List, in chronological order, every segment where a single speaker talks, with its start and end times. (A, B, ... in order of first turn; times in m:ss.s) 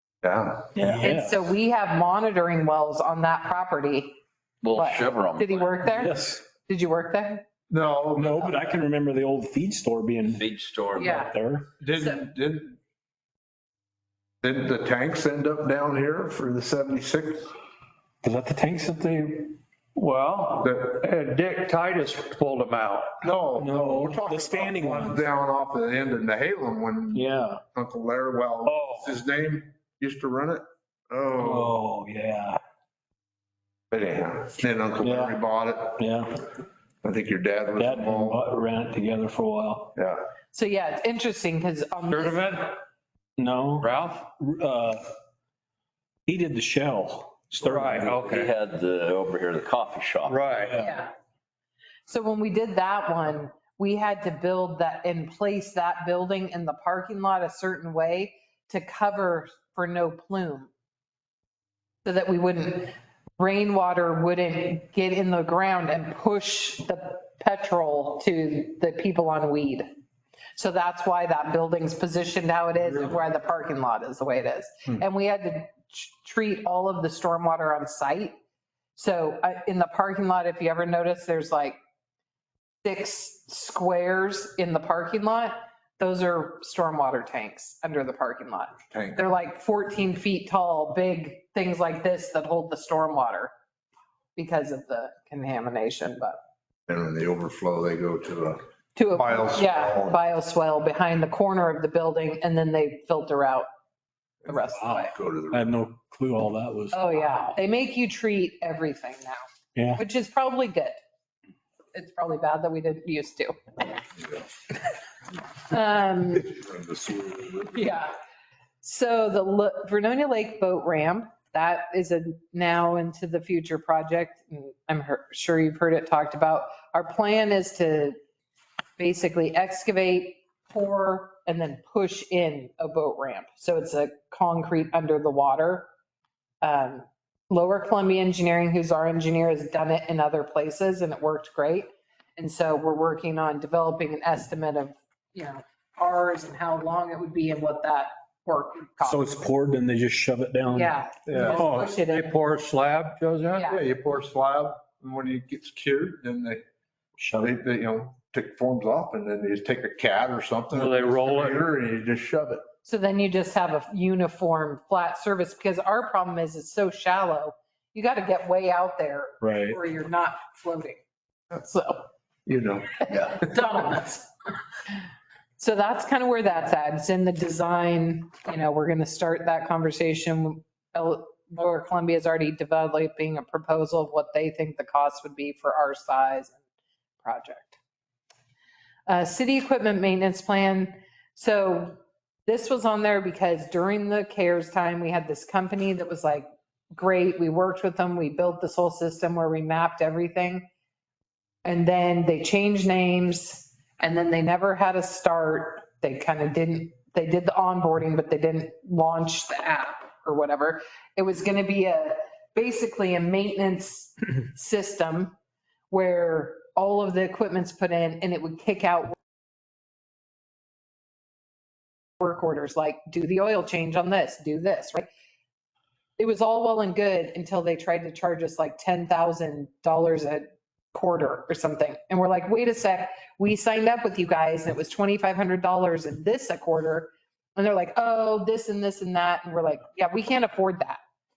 0:00.2-0:00.7 A
0:00.8-0:01.0 B
0:00.8-0:01.4 C
0:01.0-0:04.2 D
0:04.6-0:05.8 B
0:04.7-0:07.4 D
0:05.9-0:06.4 C
0:07.7-0:08.4 A
0:08.2-0:10.4 C
0:10.3-0:11.3 B
0:11.0-0:11.3 D
0:11.1-0:11.7 C
0:11.8-0:12.8 A
0:11.9-0:12.2 D
0:14.4-0:17.5 A
0:18.2-0:19.6 C
0:19.9-0:23.1 E
0:20.6-0:21.0 A
0:23.2-0:31.8 A
0:23.6-0:25.1 C
0:27.1-0:27.6 C
0:28.6-0:29.1 E
0:31.4-0:32.6 C
0:33.9-0:36.0 A
0:35.0-0:35.4 C
0:36.0-0:36.4 C
0:37.0-0:38.4 A
0:37.8-0:39.9 C
0:40.0-0:40.2 A
0:40.5-0:42.6 D
0:42.1-0:42.6 E
0:43.4-0:45.0 C
0:43.8-0:44.3 E
0:46.2-0:48.1 C
0:47.7-0:48.5 E
0:48.0-0:50.7 B
0:50.3-0:50.7 E
0:50.6-0:50.9 C
0:50.8-0:51.1 D
0:52.1-1:00.7 D
1:02.0-1:09.9 D
1:10.6-1:18.4 D
1:19.0-1:21.8 D
1:22.8-1:33.5 D
1:28.9-1:29.2 A
1:34.4-1:36.4 D
1:36.9-1:38.6 A
1:39.0-1:43.7 D
1:39.1-1:40.2 A
1:44.4-1:45.1 D
1:44.8-1:47.0 C
1:45.1-1:45.7 A
1:46.9-1:49.4 D
1:49.7-1:50.0 C
1:49.9-1:51.0 D
1:51.9-1:54.0 D
1:55.7-1:56.6 D
1:56.4-1:57.9 A
1:57.7-1:58.1 D
1:58.8-2:08.2 D
2:09.0-2:15.9 D
2:16.6-2:29.2 D
2:29.0-2:30.9 C
2:30.7-2:32.4 D
2:31.3-2:31.6 A
2:31.6-2:33.7 E
2:33.5-2:33.8 D
2:33.7-2:36.6 A
2:37.2-2:37.6 C
2:37.4-2:42.6 A
2:40.8-2:41.6 E
2:42.8-2:51.0 D
2:49.4-2:49.8 C
2:51.5-2:52.0 D
2:52.4-2:53.4 A
2:53.0-2:54.3 D
2:55.6-3:06.6 D
3:07.2-3:07.8 D
3:09.1-3:20.6 D
3:21.6-3:35.4 D
3:35.9-3:39.2 D
3:42.2-3:45.1 D
3:46.2-4:01.0 D